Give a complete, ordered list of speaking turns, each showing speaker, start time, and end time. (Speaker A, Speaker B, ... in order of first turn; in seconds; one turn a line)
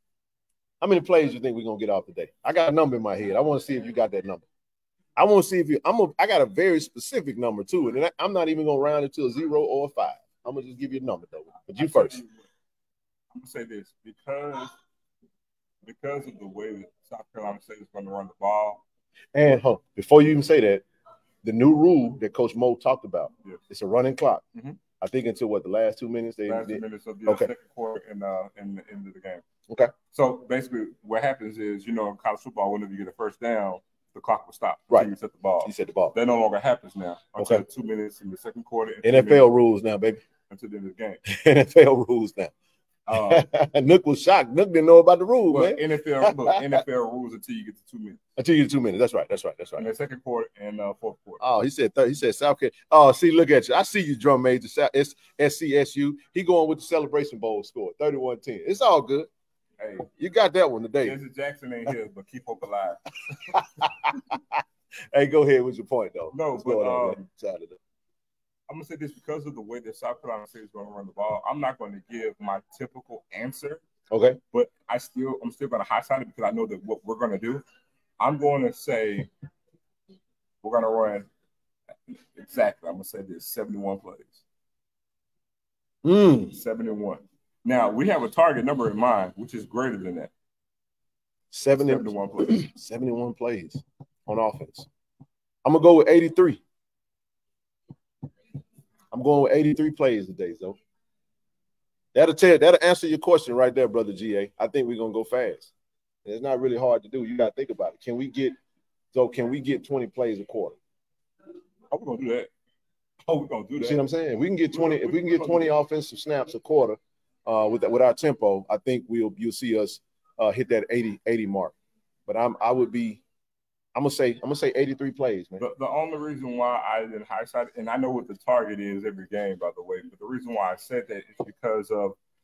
Speaker A: 0.8-4.4
Speaker A: 5.2-12.2
Speaker B: 11.7-12.5
Speaker B: 13.3-14.7
Speaker B: 15.8-18.8
Speaker A: 19.3-20.8
Speaker A: 21.4-24.4
Speaker A: 25.0-27.5
Speaker B: 26.4-29.4
Speaker B: 30.1-39.5
Speaker A: 35.6-36.1
Speaker A: 39.0-40.2
Speaker B: 40.5-41.2
Speaker A: 41.3-42.5
Speaker B: 43.1-43.5
Speaker A: 43.1-46.8
Speaker B: 45.5-48.2
Speaker A: 48.4-49.9
Speaker B: 49.8-51.4
Speaker A: 51.4-59.3
Speaker B: 59.8-60.1
Speaker A: 60.2-61.1
Speaker B: 61.0-63.0
Speaker A: 63.5-67.8
Speaker B: 66.3-67.2
Speaker B: 68.7-73.8
Speaker A: 74.1-74.4
Speaker B: 74.5-77.6
Speaker B: 78.2-79.3
Speaker B: 80.6-81.3
Speaker B: 82.1-84.4
Speaker A: 86.0-86.5
Speaker B: 86.5-90.3
Speaker A: 91.5-94.9
Speaker B: 91.8-92.7
Speaker A: 95.6-96.6
Speaker A: 99.1-100.8
Speaker A: 102.1-105.7
Speaker A: 106.2-108.5
Speaker A: 109.1-110.8
Speaker B: 111.9-112.5
Speaker B: 113.2-114.0
Speaker A: 113.8-121.7
Speaker B: 114.7-115.7
Speaker A: 122.3-123.2
Speaker A: 123.9-125.6
Speaker B: 125.6-132.2